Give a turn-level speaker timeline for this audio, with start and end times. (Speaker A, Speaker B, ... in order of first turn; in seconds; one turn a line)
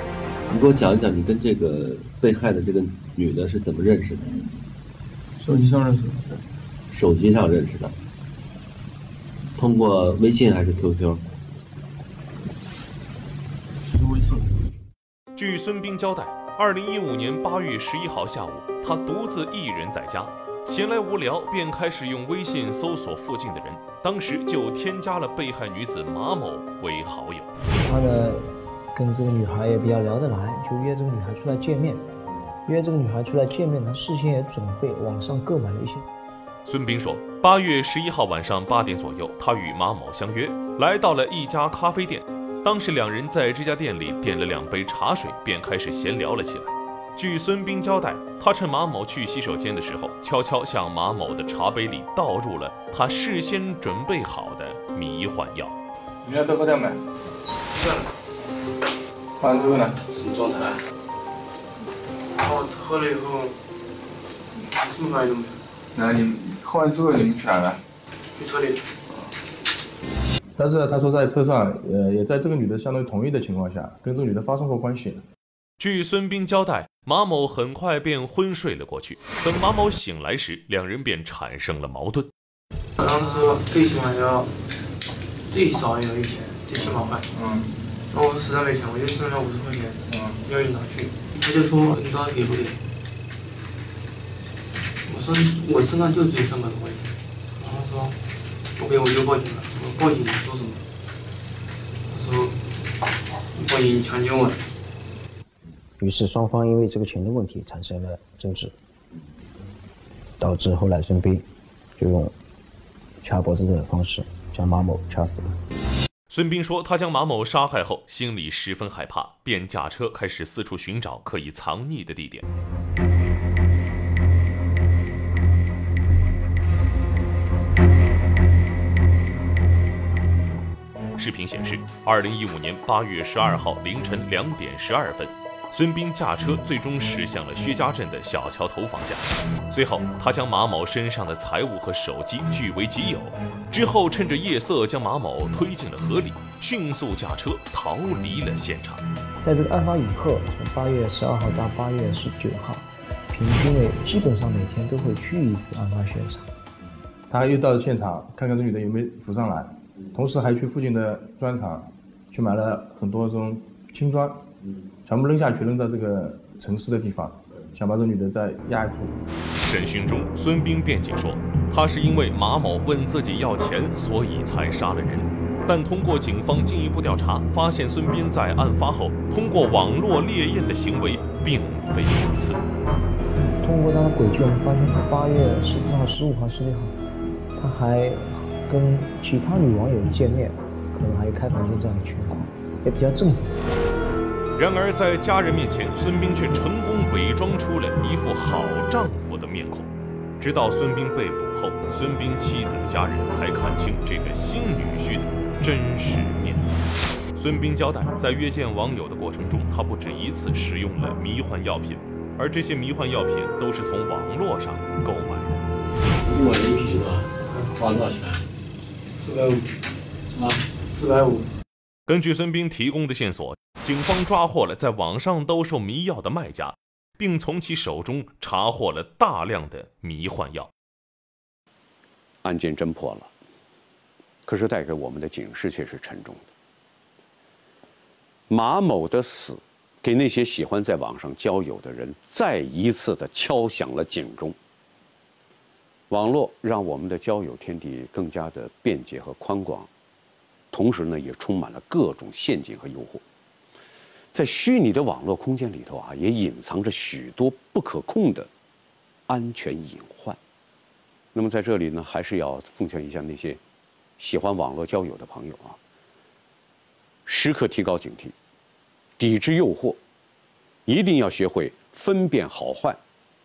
Speaker A: 0.5-4.4
Speaker A: 6.9-8.0
Speaker A: 9.6-11.2
Speaker B: 15.3-27.5
Speaker C: 27.8-32.0
Speaker C: 32.6-36.0
Speaker B: 36.6-55.7
Speaker D: 56.2-57.0
Speaker E: 57.7-58.1
Speaker D: 59.4-60.0
Speaker E: 62.3-63.6
Speaker E: 64.7-65.6
Speaker D: 65.9-67.8
Speaker E: 68.3-68.8
Speaker D: 70.6-75.2
Speaker B: 75.8-82.3
Speaker E: 83.0-84.5
Speaker E: 85.5-87.2
Speaker D: 86.8-87.7
Speaker E: 88.1-92.8
Speaker D: 90.1-90.4
Speaker E: 95.1-98.2
Speaker E: 98.8-100.8
Speaker E: 102.1-102.5
Speaker E: 103.5-104.6
Speaker F: 106.0-108.7
Speaker F: 110.4-111.5
Speaker F: 112.0-112.3
Speaker F: 113.2-115.5
Speaker B: 116.3-122.5
Speaker B: 131.2-149.0
Speaker C: 149.4-156.4
Speaker D: 157.3-164.4
Speaker D: 165.1-169.2
Speaker B: 169.6-182.6
Speaker C: 183.6-186.9
Speaker C: 187.6-193.6
Speaker B: 194.6-199.9
Speaker B: 200.4-206.7
Speaker B: 207.3-215.6
Speaker G: 216.3-218.4
Speaker E: 219.2-219.5
Speaker E: 220.9-221.4
Speaker B: 222.1-230.7
Speaker H: 232.4-233.3
Speaker H: 234.4-236.4
Speaker H: 238.5-244.6
Speaker H: 246.1-249.9
Speaker H: 250.7-253.2
Speaker H: 254.3-258.5
Speaker H: 259.3-260.4
Speaker H: 261.3-263.6
Speaker H: 264.2-265.8
Speaker H: 267.2-268.3
Speaker H: 269.2-270.0
Speaker H: 270.9-273.0